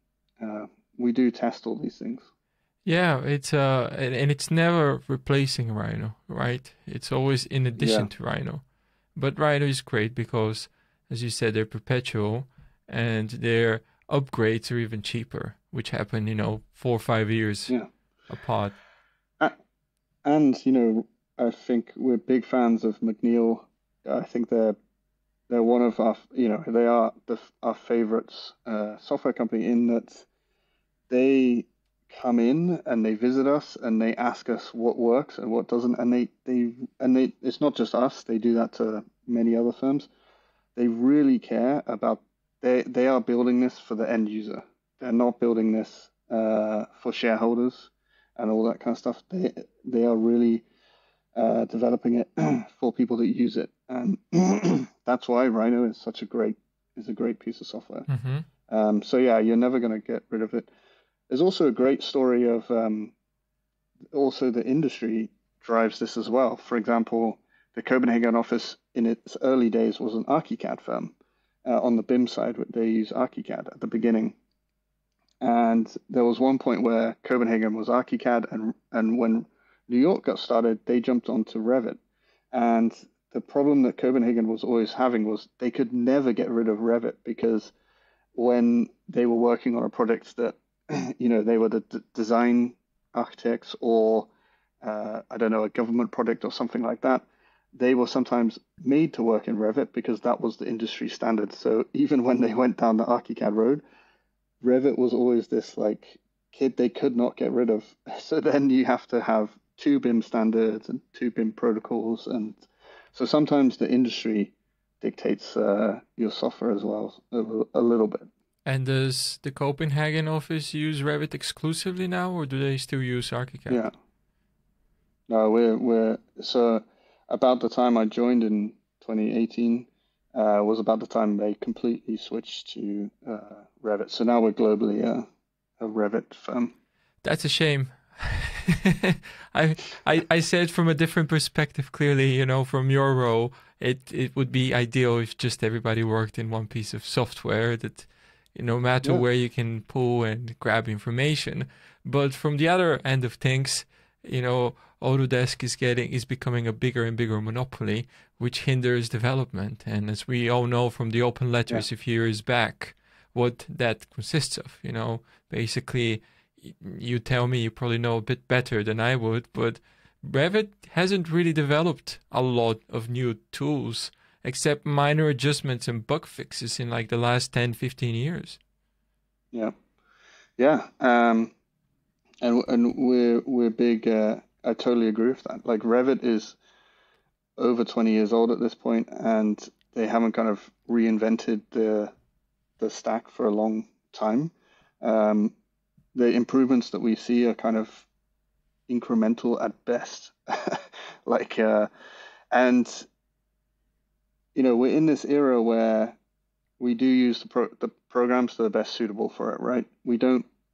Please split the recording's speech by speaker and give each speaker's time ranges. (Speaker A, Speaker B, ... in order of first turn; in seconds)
Speaker A: 0.4-2.3, 7.8-8.1, 20.2-24.8, 25.5-30.3, 31.1-40.1, 40.8-50.7, 51.4-58.1, 58.7-60.7, 61.3-63.1, 64.1-71.1, 71.7-74.4, 75.4-82.0, 82.5-87.7, 88.3-94.3, 94.8-103.8, 104.6-112.6, 113.1-118.3, 125.3-135.2, 135.8-136.7, 180.6-181.5, 182.4-186.6, 187.6-192.1, 192.8-195.5, 196.1-198.1, 198.9-201.9, 202.5-203.1, 204.6-206.2, 206.8-210.5
Speaker B: 2.9-8.6, 9.2-17.8, 18.3-18.8, 58.1-58.5, 118.7-123.8, 137.2-178.6